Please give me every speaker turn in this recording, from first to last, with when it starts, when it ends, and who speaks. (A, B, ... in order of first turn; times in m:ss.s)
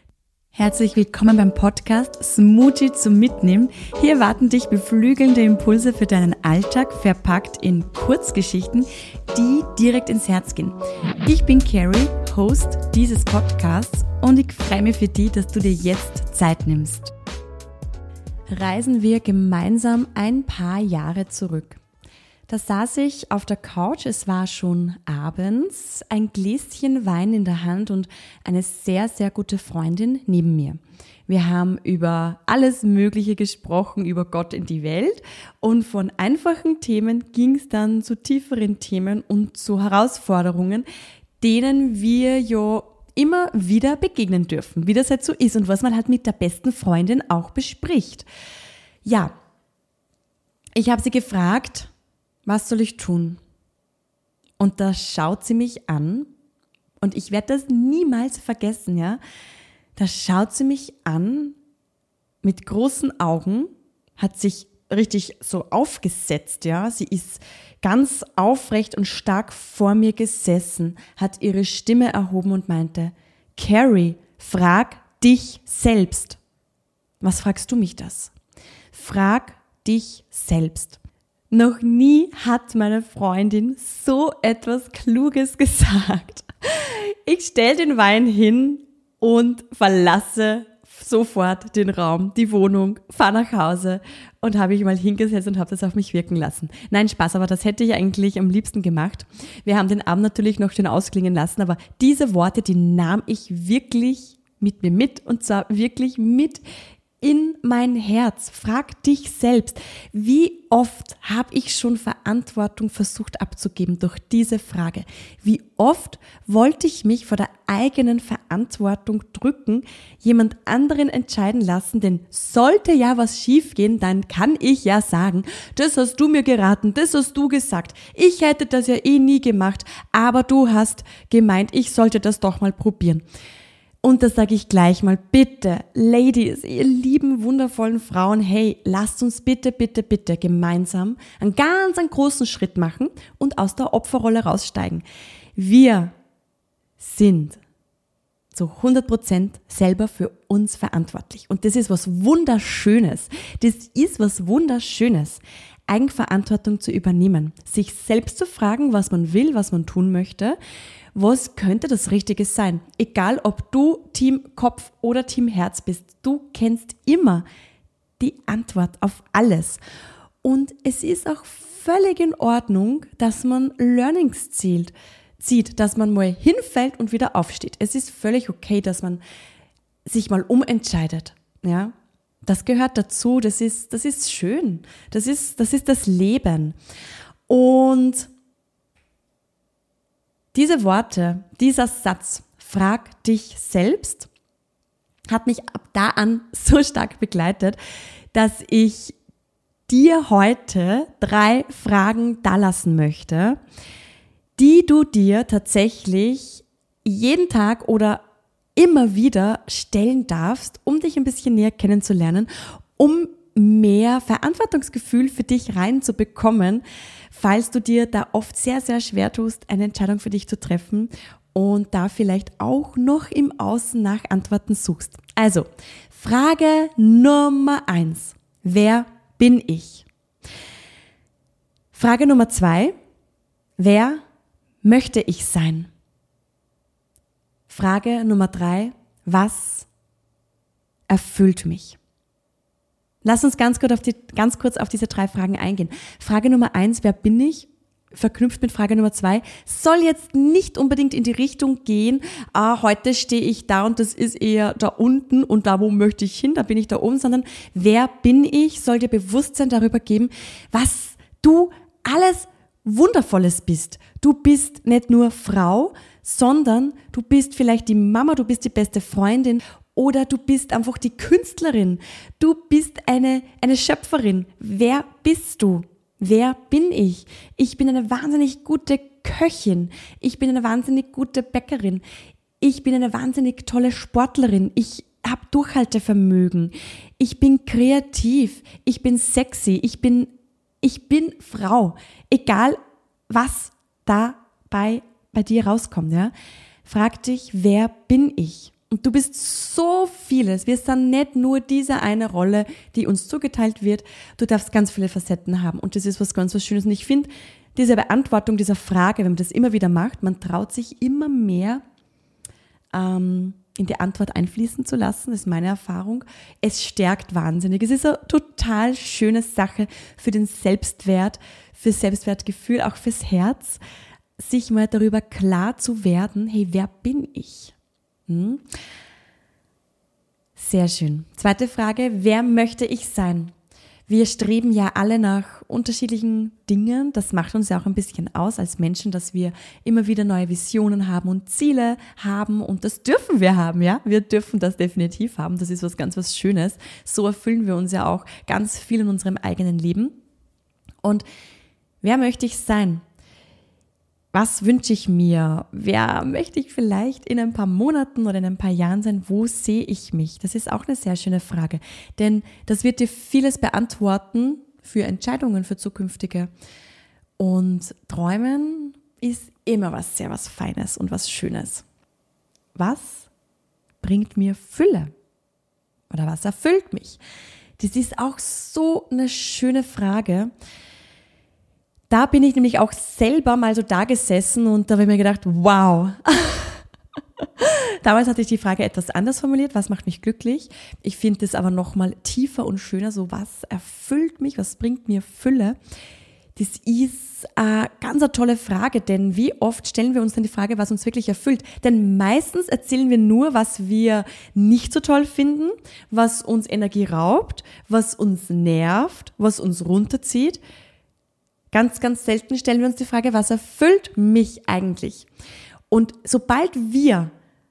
0:00.5-0:17.1 A
0:18.5-0:21.8 A
0:22.5-0:40.8 A
0:41.4-0:48.3 A
0:49.0-0:49.3 A
0:50.8-0:51.9 A
0:52.4-0:53.4 A
0:54.6-0:56.3 A
0:57.0-0:59.2 A
1:00.0-1:01.6 A
1:02.4-1:16.4 A
1:17.2-1:18.3 A
1:18.9-1:21.0 A
1:21.5-1:46.6 A
1:47.2-2:13.2 A
2:14.0-2:25.0 A
2:25.6-2:26.1 A
2:27.0-2:27.6 A
2:28.5-2:40.6 A
2:41.1-2:47.4 A
2:48.2-2:49.8 A
2:50.4-2:59.2 A
3:00.0-3:01.9 A
3:02.4-3:06.7 A
3:07.5-3:08.3 A
3:10.5-3:14.3 A
3:15.3-3:17.8 A
3:18.3-3:19.2 A
3:19.9-3:23.6 A
3:24.6-3:28.2 A
3:28.8-3:50.0 A
3:51.9-3:52.9 A
3:53.8-3:54.2 A
3:54.8-3:55.9 A
3:57.7-3:59.9 A
4:01.1-4:02.0 A
4:03.2-4:42.0 A
4:42.6-4:52.8 A
4:53.3-4:56.3 A
4:56.8-5:11.8 A
5:12.9-5:23.8 A
5:24.4-5:27.7 A
5:28.3-5:28.6 A
5:30.6-5:33.5 A
5:34.1-5:50.2 A
5:52.0-5:53.0 A
5:54.3-6:06.5 A
6:07.4-6:11.8 A
6:12.7-6:13.3 A
6:14.0-6:15.1 A
6:16.1-6:17.2 A
6:17.8-6:20.5 A
6:22.1-6:26.8 A
6:27.6-6:35.8 A
6:36.6-6:50.6 A
6:51.7-6:55.3 A
6:55.9-6:57.3 A